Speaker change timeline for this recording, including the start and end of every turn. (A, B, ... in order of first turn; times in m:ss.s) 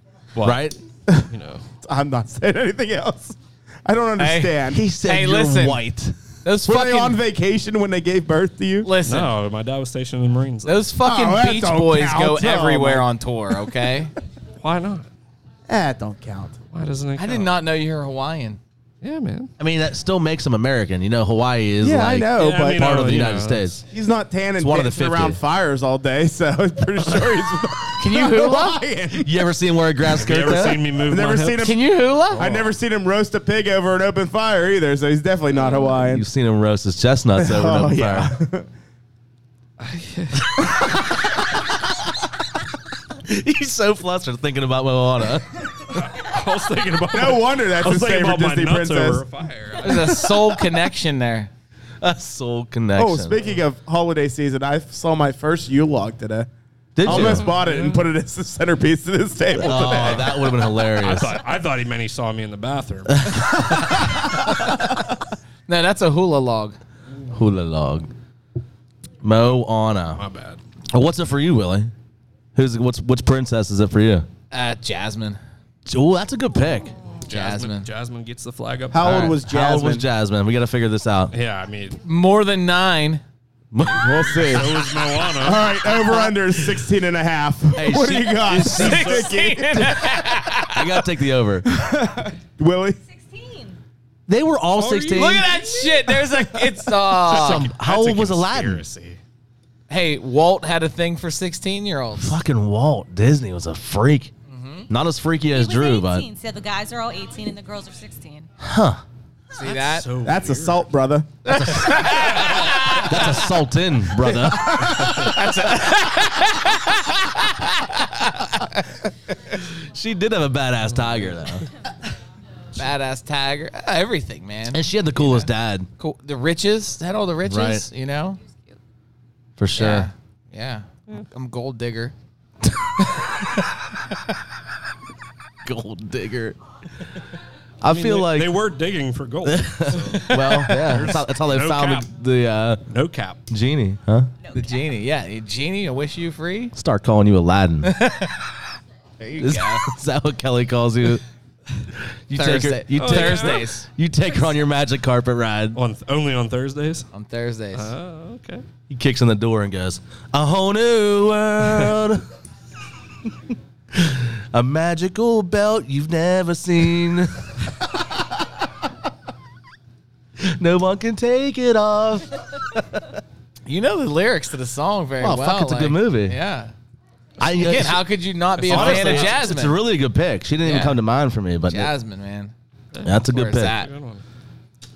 0:00.3-0:00.6 A
0:00.4-0:00.8 B
0:01.3-0:01.6 A
0:01.8-0:04.8 C
0:04.2-0:05.8 D
0:04.7-0:06.2 B
0:06.4-0:07.2 D
0:06.6-0:08.9 C
0:08.8-0:09.3 D
0:09.0-0:10.8 A
0:10.6-0:14.1 D
0:11.0-0:13.0 C
0:14.6-0:15.1 A
0:15.7-0:16.6 C
0:16.7-0:17.6 A
0:17.2-0:18.6 D
0:19.0-0:19.5 A
0:19.6-0:23.8 B
0:21.8-0:22.9 C
0:22.4-0:23.8 A
0:23.9-0:29.3 C
0:24.6-0:25.4 B
0:28.0-0:28.8 D
0:29.1-0:30.8 B
0:30.1-0:31.7 A
0:31.0-0:36.2 C
0:31.6-0:32.4 D
0:32.3-0:32.7 A
0:35.8-0:38.3 B
0:37.4-0:38.7 C
0:39.8-0:40.7 A
0:43.2-0:45.8 B
0:45.9-0:50.3 A
0:47.1-0:49.2 C
0:49.8-0:51.5 D
0:52.0-0:53.4 B
0:53.0-0:56.5 C
0:57.0-0:57.5 B
0:57.0-1:00.4 C
0:57.0-0:58.1 A
0:59.5-1:01.4 B
0:59.6-1:03.6 A
1:03.1-1:03.6 B
1:05.7-1:06.8 D
1:07.3-1:08.1 B
1:09.2-1:10.2 B
1:10.1-1:10.6 A
1:10.9-1:11.9 B
1:12.5-1:14.3 B
1:14.5-1:15.4 D
1:15.9-1:16.9 B
1:17.3-1:19.3 A
1:17.3-1:17.9 D
1:18.9-1:20.0 C
1:19.0-1:21.3 B
1:21.3-1:22.0 A
1:22.0-1:23.2 D
1:23.7-1:24.6 B
1:23.8-1:25.8 A
1:23.9-1:30.2 C
1:27.7-1:29.1 B
1:28.5-1:30.9 D
1:28.5-1:29.3 A
1:30.6-1:31.7 B
1:31.6-1:33.0 C
1:33.1-1:33.8 E
1:34.3-1:35.5 B
1:34.7-1:36.1 A
1:35.1-1:37.7 D
1:37.2-1:39.2 A
1:37.3-1:38.8 B
1:39.9-1:42.4 D
1:42.2-1:44.3 B
1:44.5-1:44.9 D
1:44.9-1:46.3 B
1:45.5-1:48.5 E
1:48.6-1:49.0 B
1:49.5-1:50.1 D
1:49.6-1:50.9 A
1:50.2-1:51.3 C
1:51.4-1:53.4 D
1:51.5-1:52.3 B
1:52.1-1:53.0 A
1:52.9-1:55.2 B
1:54.5-1:58.8 D
1:59.6-2:01.7 B
2:02.8-2:08.4 D
2:04.7-2:05.9 B
2:07.4-2:07.8 B
2:09.6-2:10.1 B
2:09.8-2:12.1 D
2:15.6-2:16.6 B
2:17.8-2:18.6 B
2:17.9-2:22.1 A
2:19.4-2:22.8 B
2:22.9-2:23.4 A
2:23.5-2:24.3 B
2:24.4-2:24.9 E
2:24.5-2:26.7 D
2:26.7-2:27.9 B
2:27.8-2:28.6 D
2:29.2-2:29.9 D
2:29.4-2:31.2 B
2:32.3-2:35.8 B
2:32.3-2:33.9 D
2:32.9-2:33.7 A
2:35.7-2:37.1 A
2:37.1-2:37.9 D
2:37.7-2:38.6 A
2:38.9-2:42.2 B
2:43.9-2:47.4 B
2:50.4-2:53.1 B
2:53.6-2:56.7 D
2:55.2-2:56.4 B
2:57.4-2:58.1 B
2:57.5-2:59.8 D
2:58.6-2:59.4 A
2:58.6-3:01.9 B
3:00.6-3:01.0 D
3:01.7-3:02.5 D
3:02.9-3:04.2 A
3:03.0-3:03.8 B
3:03.2-3:03.9 D